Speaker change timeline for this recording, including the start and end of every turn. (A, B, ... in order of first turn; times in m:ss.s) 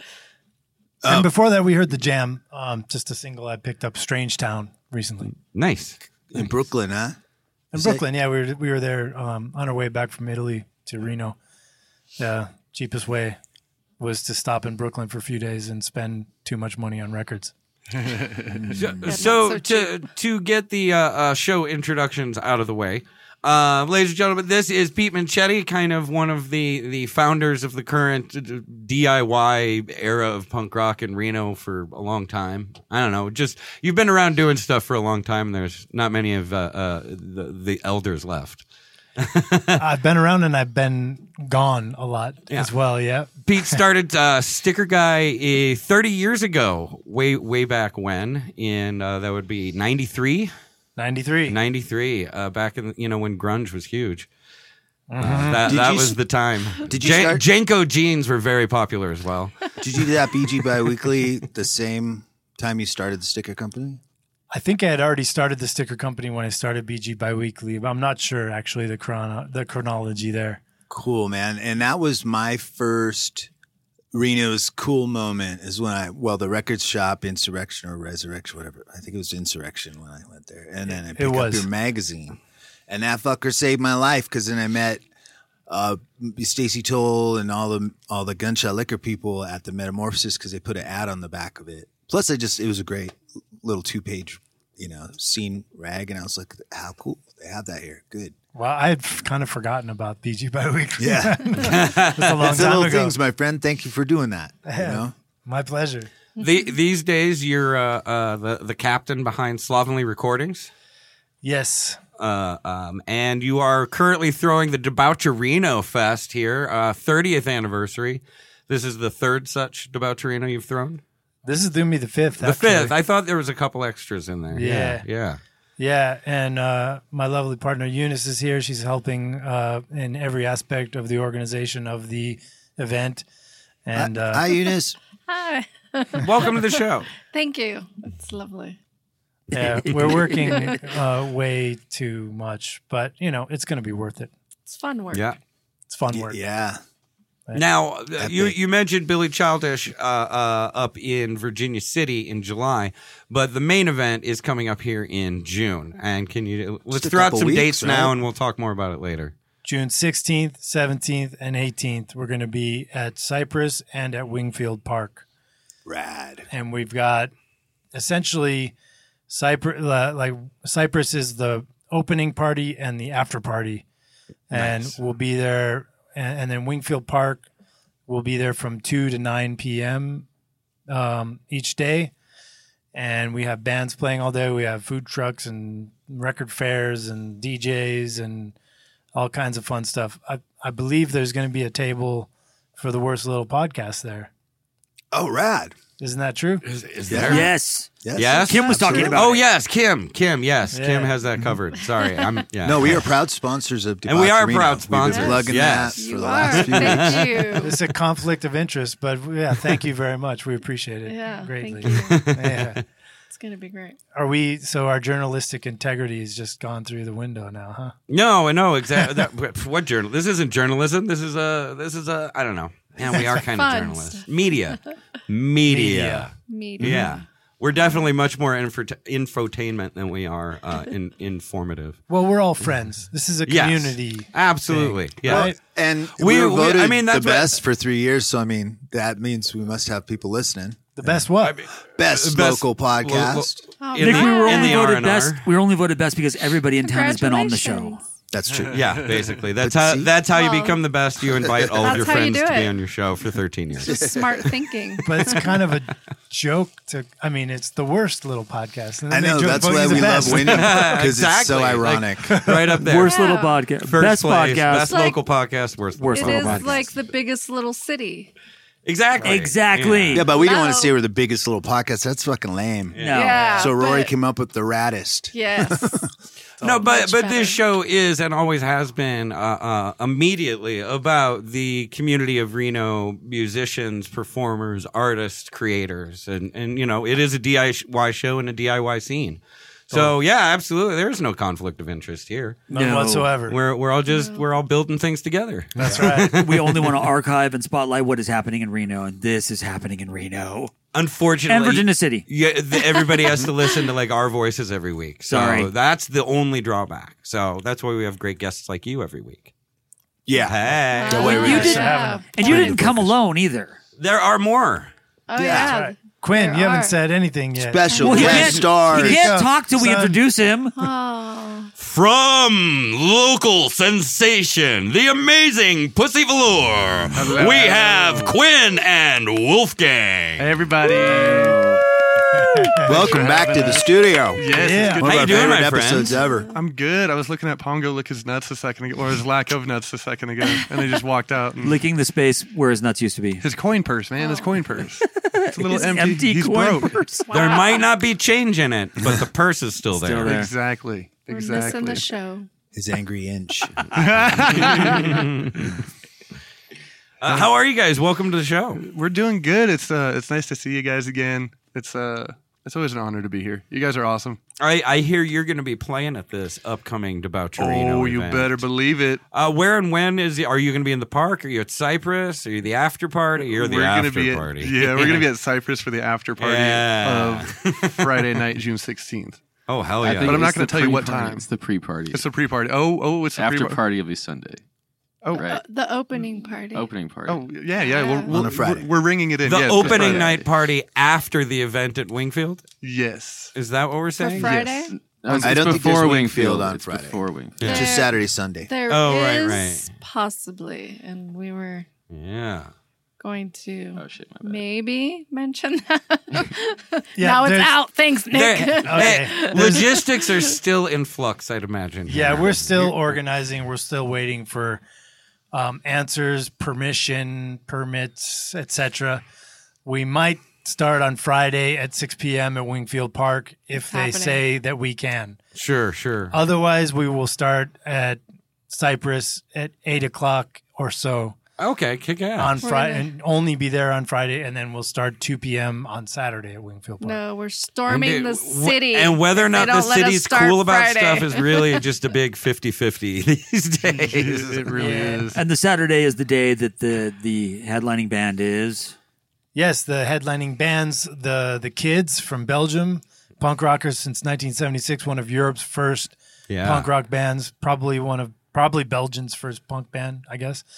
0:01.0-0:01.3 A
0:01.1-0:05.3 B
0:05.5-0:06.0 C
0:06.3-0:07.2 A
0:07.7-0:11.4 B
0:07.7-0:08.0 A
0:12.2-0:13.4 B
0:14.0-0:17.5 B
0:18.0-0:18.5 D
0:18.8-0:38.6 C
0:19.0-0:20.1 E
0:39.2-0:39.8 C
0:39.8-0:43.8 B
0:43.4-0:50.5 C
0:51.0-0:51.6 B
0:51.5-0:54.3 C
0:55.1-0:55.7 B
0:55.2-0:59.6 C
0:55.6-0:56.2 A
0:56.8-0:57.4 A
0:59.8-1:04.0 A
1:04.5-1:10.6 B
1:10.9-1:13.5 A
1:14.1-1:25.0 A
1:20.9-1:21.7 B
1:25.7-1:38.4 A
1:38.6-1:43.2 B
1:41.0-1:41.7 A
1:41.6-1:42.6 C
1:42.4-1:45.1 A
1:44.6-1:46.1 B
1:46.4-1:50.7 C
1:51.4-1:52.0 B
1:52.2-2:01.0 C
2:01.4-2:03.0 B
2:02.4-2:05.4 C
2:04.5-2:05.0 B
2:05.8-2:13.2 B
2:13.9-2:14.5 B
2:14.0-2:15.0 A
2:15.3-2:18.8 E
2:16.2-2:17.1 C
2:19.5-2:24.3 B
2:19.6-2:20.7 F
2:20.4-2:20.8 E
2:24.7-2:25.3 E
2:25.1-2:25.4 C
2:25.9-2:26.4 B
2:26.1-2:26.8 A
2:27.6-2:39.3 C
2:28.2-2:28.6 A
2:36.9-2:38.2 A
2:39.6-2:45.2 B
2:45.8-2:46.5 A
2:46.5-2:47.3 B
2:47.9-2:48.7 B
2:49.3-2:53.8 B
2:54.5-2:57.5 B
2:54.5-2:55.0 A
2:58.1-3:00.3 B
3:00.9-3:02.1 B
3:02.9-3:08.6 B
3:09.2-3:14.3 B
3:15.1-3:15.8 A
3:16.0-3:16.6 B
3:16.6-3:17.5 C
3:17.1-3:17.4 A
3:17.2-3:19.4 F
3:18.0-3:19.3 A
3:18.1-3:23.0 C
3:20.7-3:21.2 B
3:22.6-3:27.5 A
3:24.1-3:27.6 C
3:25.0-3:27.8 E
3:27.6-3:32.8 B
3:31.1-3:32.3 E
3:31.8-3:32.8 C
3:33.3-3:34.0 E
3:34.1-3:37.9 B
3:38.1-3:52.0 C
3:43.1-3:43.4 B
3:43.2-3:44.2 E
3:45.7-3:46.3 B
3:46.5-3:47.2 E
3:52.1-3:55.6 B
3:53.5-3:55.5 C
3:55.2-4:01.2 A
3:56.2-3:57.6 C
4:01.0-4:01.6 B
4:01.4-4:05.5 C
4:01.9-4:03.6 A
4:03.8-4:04.9 E
4:04.0-4:08.0 F
4:06.8-4:08.0 E
4:08.3-4:10.2 A
4:08.7-4:14.5 C
4:10.3-4:10.8 E
4:11.4-4:12.1 A
4:11.8-4:12.8 E
4:13.8-4:15.5 E
4:13.9-4:14.4 A
4:15.0-4:20.9 B
4:19.1-4:22.6 A
4:20.2-4:23.2 C
4:22.8-4:25.2 F
4:23.0-4:23.6 E
4:23.8-4:26.9 C
4:24.8-4:25.2 E
4:26.0-4:26.9 F
4:26.1-4:28.3 E
4:28.8-4:30.3 C
4:29.2-4:30.3 F
4:30.2-4:36.1 A
4:30.3-4:31.0 E
4:32.9-4:33.6 C
4:33.0-4:33.6 F
4:33.1-4:34.1 E
4:35.3-4:36.0 E
4:36.6-4:52.6 C
4:36.6-4:37.6 E
4:52.7-4:53.6 B
4:52.7-4:53.3 F
4:53.5-4:57.1 C
4:54.1-4:54.4 E
4:55.8-4:56.4 B
4:56.2-5:00.7 F
5:00.9-5:09.5 C
5:01.5-5:02.2 F
5:05.3-5:05.7 F
5:10.3-5:13.2 A
5:10.4-5:11.8 C
5:10.9-5:12.7 E
5:11.2-5:13.8 F
5:11.3-5:12.5 B
5:14.0-5:14.9 C
5:15.3-5:17.0 E
5:15.4-5:15.7 A
5:15.4-5:20.2 B
5:17.6-5:19.4 A
5:17.9-5:18.3 E
5:18.0-5:20.8 F
5:20.8-5:21.7 E
5:21.8-5:30.4 C
5:27.1-5:28.4 D
5:30.4-5:31.8 D
5:31.0-5:31.4 G
5:32.5-5:33.3 B
5:32.9-5:35.6 D
5:32.9-5:36.5 A
5:34.5-5:35.0 B
5:35.0-5:36.1 C
5:36.1-5:36.5 E
5:36.5-5:41.8 D
5:41.6-5:43.4 F
5:43.4-5:47.0 D
5:44.2-5:44.6 E
5:45.1-5:47.3 F
5:47.3-5:48.0 E
5:47.3-5:50.3 C
5:49.9-5:50.5 F
5:50.2-5:52.1 D
5:51.3-5:52.5 E
5:52.7-5:54.7 A
5:53.9-5:55.3 D
5:54.5-5:55.6 C
5:57.2-5:58.8 C
5:58.8-6:04.4 D
6:04.6-6:08.7 C
6:07.6-6:09.2 D
6:09.3-6:15.3 C
6:13.4-6:19.4 D
6:16.4-6:18.3 C
6:19.7-6:20.5 C
6:20.0-6:22.3 G
6:20.2-6:21.5 D
6:22.1-6:23.8 D
6:23.3-6:24.6 G
6:25.2-6:25.5 D
6:25.3-6:25.6 G
6:25.4-6:26.9 E
6:26.7-6:27.6 G
6:27.2-6:30.4 D
6:27.8-6:28.3 E
6:28.3-6:28.9 A
6:29.4-6:32.6 C
6:29.7-6:30.5 G
6:32.8-6:33.5 D
6:33.6-6:34.9 C
6:34.2-6:34.9 E
6:34.5-6:37.7 G
6:35.3-6:35.8 D
6:35.4-6:38.7 A
6:37.6-6:37.9 C
6:37.6-6:41.9 E
6:38.9-6:39.9 C
6:42.1-6:42.7 C
6:43.2-6:50.6 E
6:44.0-6:44.6 G
6:47.2-6:47.8 B
6:48.3-6:53.0 C
6:48.8-6:49.8 B
6:52.1-6:54.8 B
6:55.5-6:59.2 B
6:59.8-7:05.4 B
7:03.8-7:04.4 E
7:05.6-7:06.4 C
7:06.3-7:11.4 B
7:11.6-7:12.6 C
7:12.4-7:17.2 B
7:12.6-7:13.1 E
7:17.0-7:21.8 E
7:17.9-7:24.8 C
7:24.0-7:25.4 D
7:24.8-7:25.3 B
7:25.3-7:28.9 F
7:29.6-7:40.6 B
7:36.5-7:36.9 C